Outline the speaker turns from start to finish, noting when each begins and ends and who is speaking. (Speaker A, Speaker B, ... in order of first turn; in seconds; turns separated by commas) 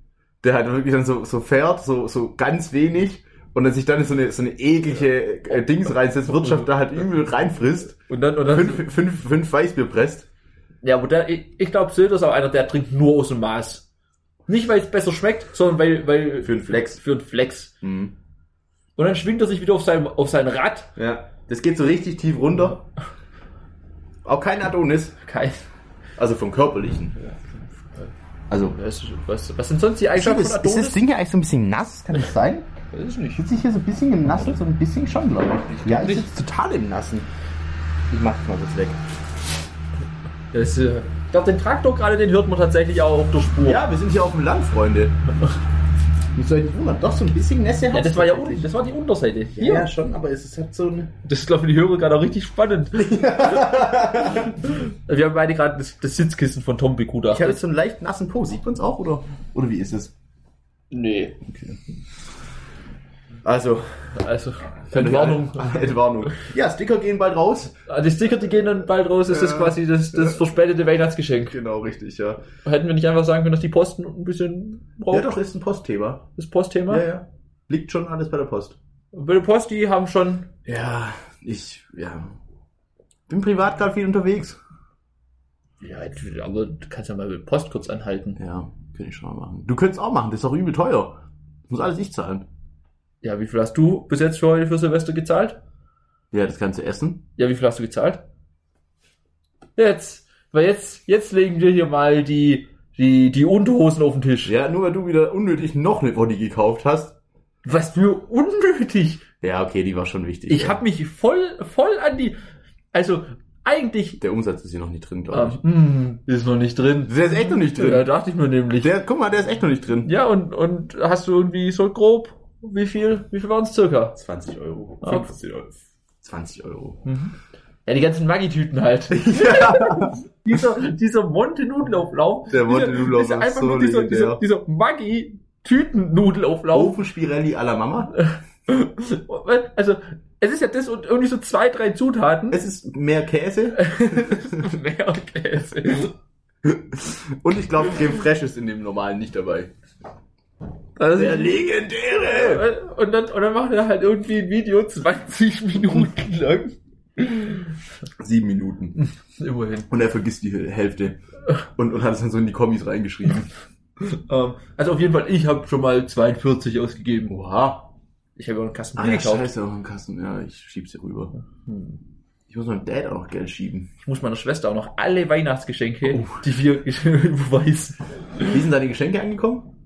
Speaker A: 0.4-10.3, Speaker B: 6.3-6.7, Speaker B: 8.1-8.9, Speaker B: 10.8-13.9, Speaker B: 14.5-17.8, Speaker A: 16.4-17.0, Speaker A: 17.8-18.1, Speaker B: 19.0-20.9, Speaker A: 21.0-22.9, Speaker A: 24.2-25.2, Speaker B: 25.2-25.7, Speaker A: 26.2-27.2, Speaker A: 28.5-28.8, Speaker B: 28.7-31.0, Speaker A: 30.2-32.7, Speaker B: 32.9-33.5, Speaker A: 33.4-37.3, Speaker B: 35.7-36.3, Speaker A: 38.1-39.0, Speaker B: 40.5-43.8, Speaker A: 43.6-45.2, Speaker A: 46.4-48.7, Speaker B: 47.9-49.9, Speaker A: 49.6-51.1, Speaker B: 51.2-57.6, Speaker A: 52.9-54.7, Speaker A: 57.3-60.1, Speaker B: 60.9-61.4, Speaker A: 61.5-61.8, Speaker A: 63.4-63.9, Speaker B: 64.2-65.9, Speaker A: 64.9-67.8, Speaker B: 67.9-71.6, Speaker A: 69.3-70.4, Speaker A: 71.5-72.5, Speaker B: 72.7-75.3, Speaker A: 75.1-76.3, Speaker B: 76.4-77.1, Speaker A: 76.9-78.8, Speaker B: 79.1-80.5, Speaker A: 80.7-82.4, Speaker A: 83.3-84.6, Speaker B: 85.8-88.4, Speaker A: 88.4-92.5, Speaker B: 93.2-95.6, Speaker A: 96.3-97.2, Speaker B: 97.4-98.2, Speaker B: 99.8-104.5, Speaker A: 104.5-107.2, Speaker B: 107.7-109.2, Speaker A: 109.4-110.8, Speaker B: 110.5-112.4, Speaker B: 112.9-114.2, Speaker A: 114.2-115.6, Speaker B: 115.3-118.9, Speaker A: 117.1-118.1, Speaker A: 118.8-120.1, Speaker B: 120.0-124.2, Speaker A: 124.2-127.1, Speaker B: 125.0-125.3, Speaker B: 127.0-127.3, Speaker B: 127.9-137.0, Speaker A: 129.1-130.2, Speaker A: 132.5-134.4, Speaker A: 136.7-138.1, Speaker B: 138.2-142.6, Speaker A: 142.5-144.6, Speaker B: 143.7-146.2, Speaker A: 146.6-149.7, Speaker B: 151.0-157.7, Speaker A: 151.2-152.7, Speaker A: 158.2-159.0, Speaker B: 159.0-159.9, Speaker A: 159.9-161.2, Speaker A: 161.8-163.5, Speaker B: 164.0-167.3, Speaker A: 167.3-167.9, Speaker B: 168.4-169.5, Speaker A: 169.0-171.3, Speaker B: 171.7-172.0, Speaker A: 172.5-173.9, Speaker B: 174.0-178.6, Speaker A: 176.1-176.4, Speaker A: 178.4-179.7